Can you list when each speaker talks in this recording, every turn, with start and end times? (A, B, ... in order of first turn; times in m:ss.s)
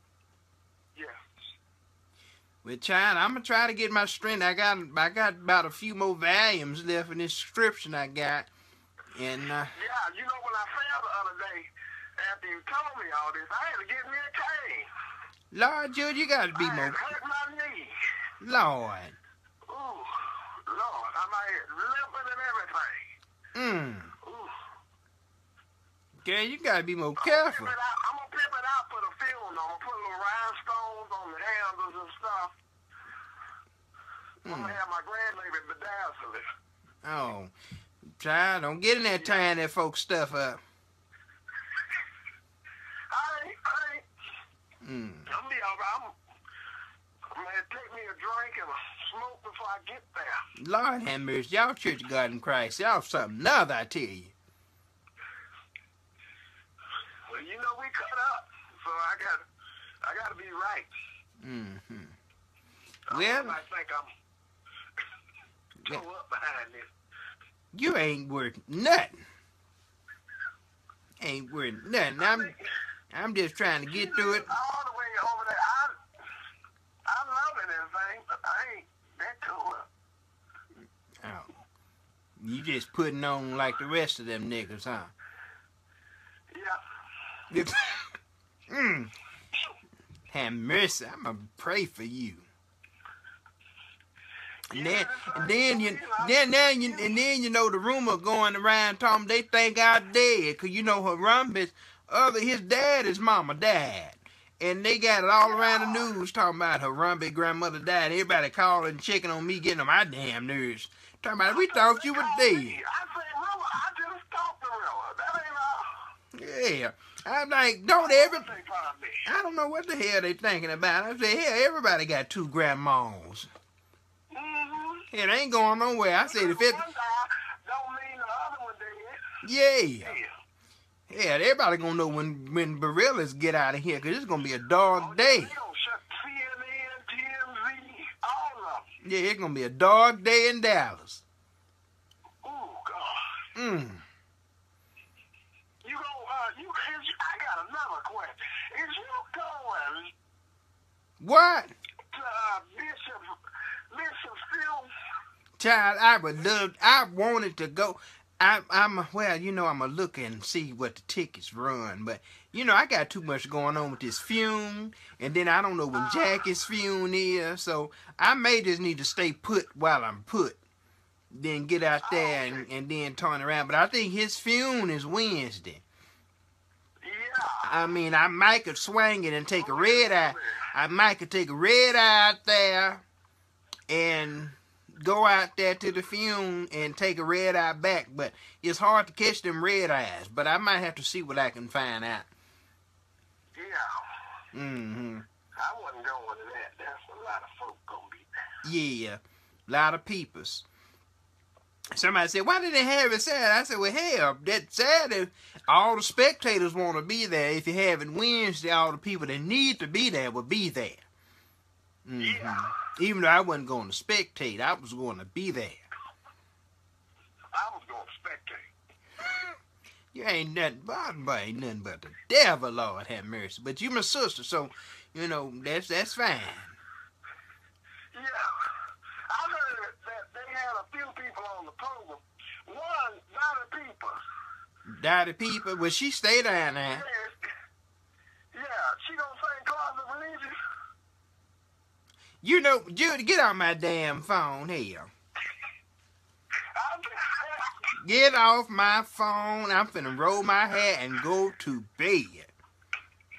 0:01.0-0:01.3 A
0:02.6-0:08.5 B
0:09.1-0:09.7 B
0:09.8-0:14.9 A
0:15.5-0:17.1 B
0:16.6-0:17.9 A
0:18.4-0:19.2 B
0:19.7-0:23.0 A
0:23.5-0:24.1 B
0:24.2-0:24.5 A
0:26.2-0:27.7 B
0:27.2-0:32.6 A
0:34.4-0:34.8 B
0:34.4-0:36.4 A
0:37.0-0:37.5 B
0:38.1-0:40.6 B
0:39.2-0:39.5 A
0:43.1-0:44.0 A
0:44.8-0:45.3 B
0:45.3-0:46.2 A
0:47.3-0:50.4 A
0:50.6-0:54.3 B
0:57.3-0:59.4 A
1:00.0-1:00.9 A
1:01.4-1:02.2 B
1:03.1-1:04.1 A
1:03.1-1:03.6 B
1:05.8-1:06.9 A
1:07.7-1:09.2 B
1:11.2-1:12.5 B
1:12.2-1:12.6 A
1:13.1-1:14.5 B
1:13.9-1:16.0 A
1:17.1-1:19.9 A
1:21.2-1:21.6 B
1:22.4-1:25.1 B
1:26.5-1:26.8 A
1:27.5-1:28.1 B
1:28.7-1:29.1 B
1:30.3-1:32.5 B
1:34.7-1:52.8 B
1:34.7-1:37.2 A
1:45.4-1:46.1 A
1:51.4-1:56.0 A
1:56.3-1:58.5 B
1:58.0-1:59.3 A
1:59.3-2:03.5 B
2:04.3-2:05.1 A
2:05.1-2:06.8 B
2:06.3-2:09.2 A
2:09.4-2:10.2 B
2:10.0-2:10.3 A
2:11.1-2:15.5 B
2:15.0-2:18.9 A
2:19.0-2:21.2 B
2:22.4-2:23.4 A
2:23.6-2:24.0 B
2:25.8-2:30.1 A
2:31.2-2:31.7 B
2:32.1-2:33.3 A
2:33.9-2:34.9 A
2:35.6-2:50.6 B
2:45.9-2:46.4 A
2:51.3-2:55.8 B
2:52.0-2:52.7 A
2:57.0-2:57.7 A
2:57.6-3:03.0 B
2:59.5-3:00.7 A
3:03.9-3:12.3 B
3:13.6-3:14.2 A
3:14.5-3:15.2 B
3:15.6-3:18.3 A
3:18.6-3:20.6 B
3:21.9-3:31.0 B
3:32.0-3:35.8 B
3:32.2-3:32.7 A
3:37.5-3:38.7 A
3:40.1-3:46.8 B
3:48.1-3:48.5 A
3:49.3-3:54.2 A
3:54.9-3:57.0 B
3:56.9-3:57.4 A
3:58.5-4:00.6 A
4:02.4-4:05.1 B
4:06.8-4:07.8 A
4:08.0-4:12.5 B